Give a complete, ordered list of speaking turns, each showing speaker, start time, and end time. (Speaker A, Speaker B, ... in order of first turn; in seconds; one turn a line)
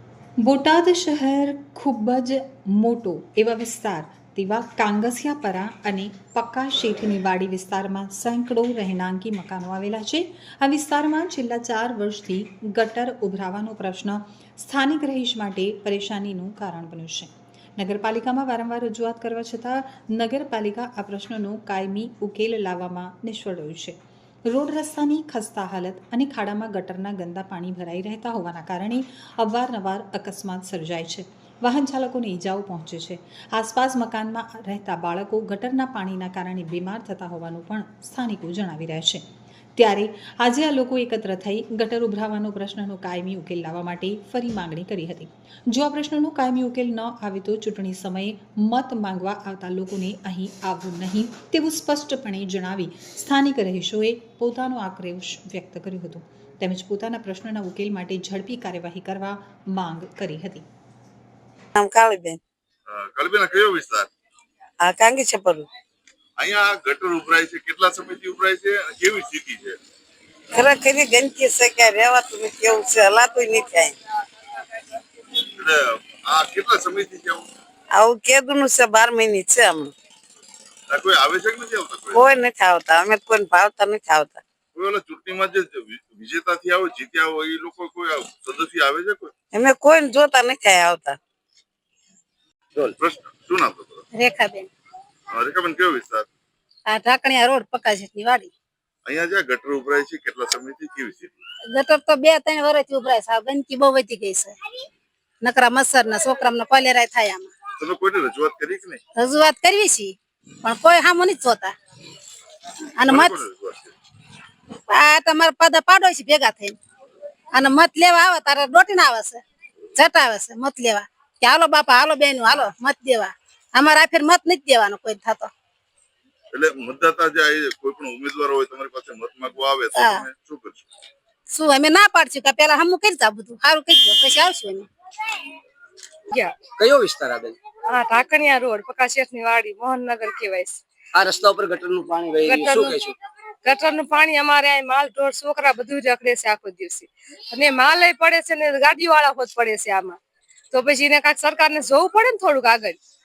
Speaker A: 0.4-24.0
Speaker A: 24.5-39.2
Speaker A: 39.8-60.6
Speaker B: 61.8-62.4
Speaker C: 62.9-64.1
Speaker B: 64.8-65.7
Speaker C: 66.4-69.8
Speaker B: 70.5-73.9
Speaker C: 75.6-77.5
Speaker B: 77.9-79.9
Speaker C: 80.9-82.3
Speaker B: 82.1-84.4
Speaker C: 84.7-89.3
Speaker B: 89.5-91.2
Speaker C: 92.8-94.1
Speaker D: 94.1-94.7
Speaker C: 95.3-96.3
Speaker D: 96.9-98.5
Speaker C: 99.1-101.4
Speaker D: 101.7-104.6
Speaker D: 105.4-107.5
Speaker C: 107.8-109.0
Speaker D: 109.2-111.8
Speaker D: 113.0-113.4
Speaker C: 113.0-113.9
Speaker D: 114.9-116.8
Speaker D: 117.5-119.4
Speaker D: 120.0-125.5
Speaker C: 126.5-130.8
Speaker D: 129.9-130.2
Speaker D: 131.5-134.9
Speaker E: 136.3-136.6
Speaker F: 136.8-137.6
Speaker E: 137.9-140.8
Speaker F: 141.2-143.1
Speaker E: 142.4-143.0
Speaker E: 143.6-150.2
Speaker E: 150.7-153.0